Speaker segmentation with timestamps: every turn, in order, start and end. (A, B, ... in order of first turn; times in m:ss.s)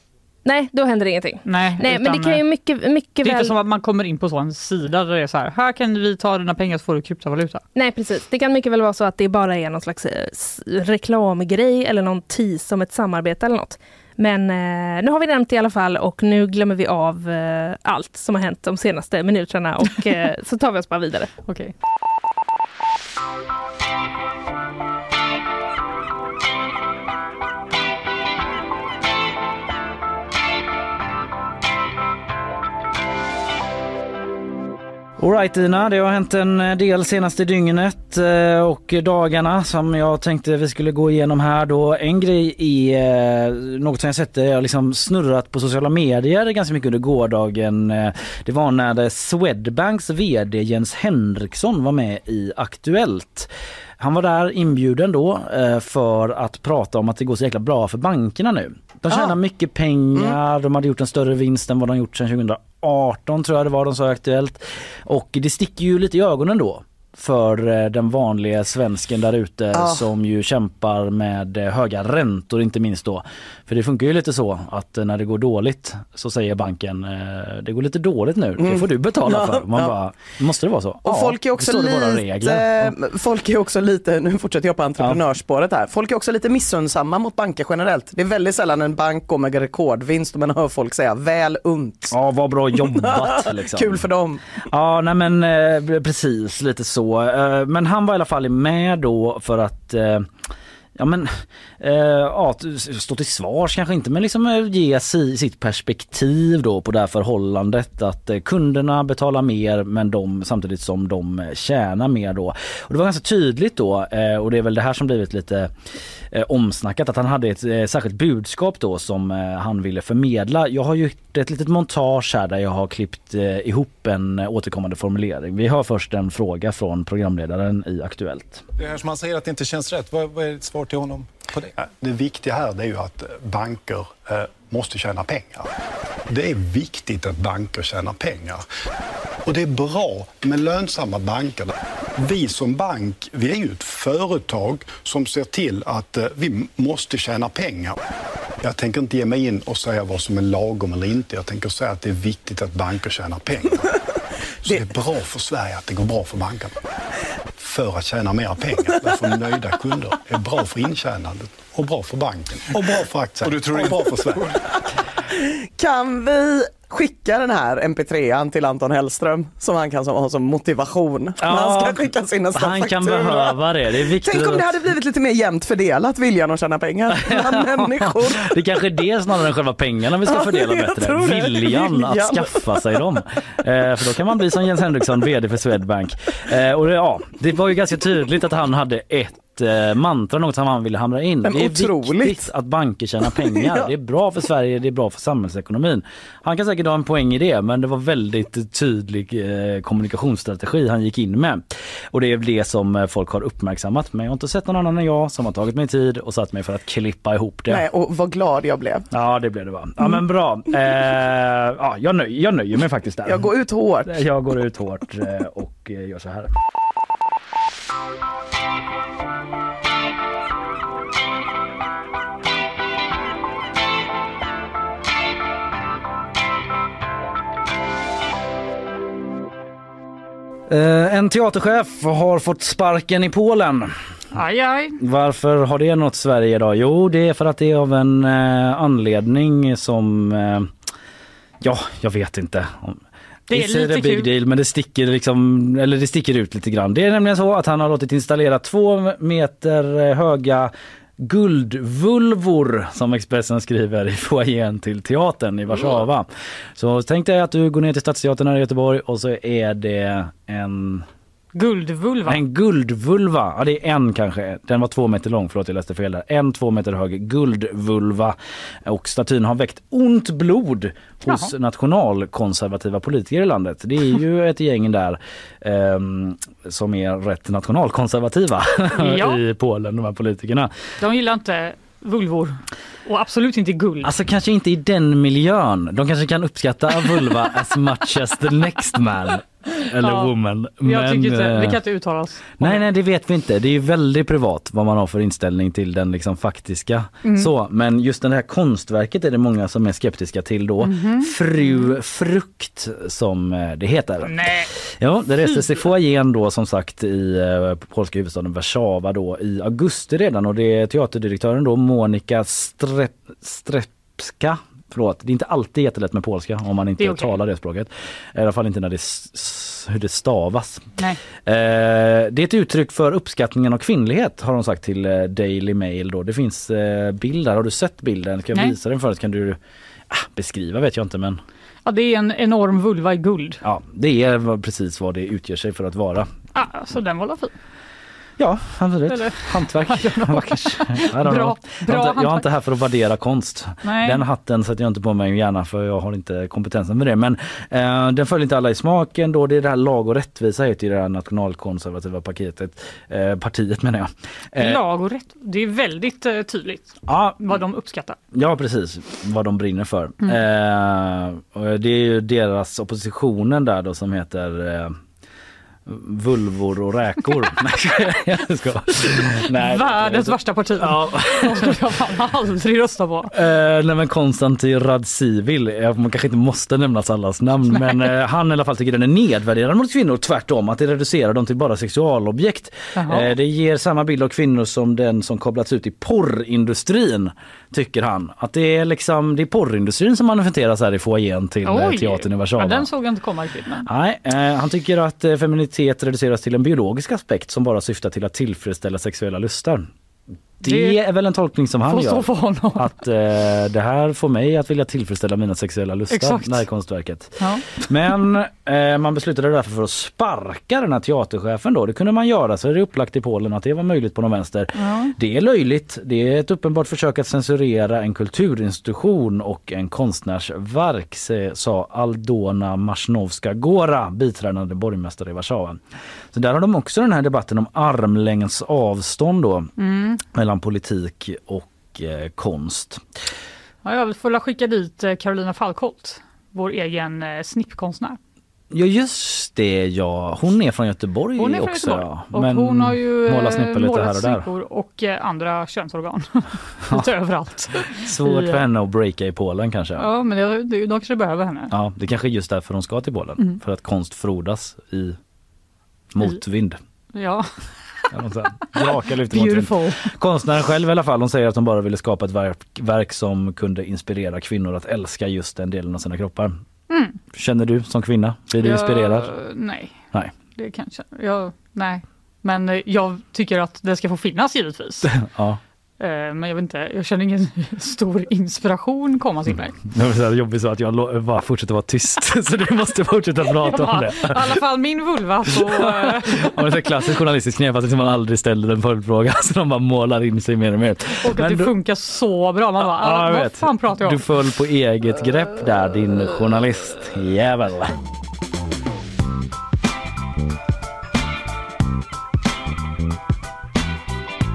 0:00.4-0:03.5 A
0:01.4-0:02.4 B
0:03.2-0:07.6 B
0:07.7-0:21.3 A
0:21.5-0:21.7 B
0:35.2-1:22.9 C
0:59.1-0:59.3 D
1:09.7-1:10.0 D
1:18.6-1:19.9 D
1:21.0-1:32.1 D
1:32.1-1:34.0 C
1:32.8-1:34.6 D
1:34.7-1:40.3 C
1:41.0-1:55.7 C
1:56.3-2:08.6 C
2:08.8-2:11.7 E
2:11.8-2:15.7 F
2:16.3-2:18.6 F
2:19.4-2:28.0 F
2:28.6-2:34.0 F
2:34.6-2:36.8 F
2:37.6-2:44.6 F
2:43.5-2:43.9 E
2:45.4-2:53.6 D
2:51.4-2:54.7 C
2:54.2-2:58.5 D
2:57.1-3:27.8 C
3:00.2-3:03.0 D
3:11.4-3:12.5 D
3:13.6-3:13.8 D
3:27.7-3:29.1 D
3:29.1-3:33.5 C
3:33.2-3:34.2 D
3:34.0-3:36.5 C
3:50.7-3:53.9 C
3:54.3-3:55.0 B
3:55.0-4:00.7 C
4:01.6-4:21.1 C
4:03.5-4:04.3 B
4:21.5-4:22.4 B
4:22.3-4:40.7 C
4:38.9-4:39.4 B
4:41.0-4:44.1 B
4:44.0-4:51.8 C
4:49.8-4:50.3 B
4:50.8-4:52.8 B
4:52.6-5:29.6 C
4:57.2-4:57.5 B
5:00.8-5:01.8 B
5:04.2-5:04.7 B
5:17.0-5:17.4 B
5:30.1-5:31.4 C
5:31.8-5:33.6 B
5:33.6-5:36.3 C
5:36.5-5:37.5 B
5:38.4-5:54.8 C
5:39.1-5:42.5 B
5:43.8-5:44.2 B
5:54.6-5:58.2 B
5:57.1-5:57.5 C
5:58.3-6:05.0 C
6:05.8-6:11.8 C
6:09.5-6:13.3 B
6:13.3-6:32.9 C
6:17.7-6:18.1 B
6:23.0-6:23.3 B
6:31.6-6:33.9 B
6:33.8-6:39.9 C
6:40.6-7:05.8 C
6:40.6-6:41.0 B
6:41.9-6:42.9 B
6:46.1-6:46.6 B
6:47.4-6:47.8 B
6:54.8-6:55.1 B
7:06.3-7:09.7 C
7:09.8-7:10.2 B
7:10.3-7:13.0 C
7:13.8-7:18.2 B
7:18.7-7:24.5 C
7:21.4-7:28.6 B
7:27.9-7:30.1 C
7:30.0-7:31.7 B
7:31.7-7:35.2 C
7:36.1-7:36.8 C
7:37.1-7:37.5 B
7:38.1-7:46.6 C
7:38.7-7:40.1 B
7:46.9-7:47.2 B
7:47.3-7:49.3 C
7:48.6-7:49.9 B
7:50.6-7:55.1 B
7:55.0-7:55.6 C
7:56.0-7:59.8 B
7:59.8-8:04.6 C
8:03.6-8:06.6 B
8:05.4-8:11.7 C
8:11.2-8:14.2 B
8:12.8-8:18.0 C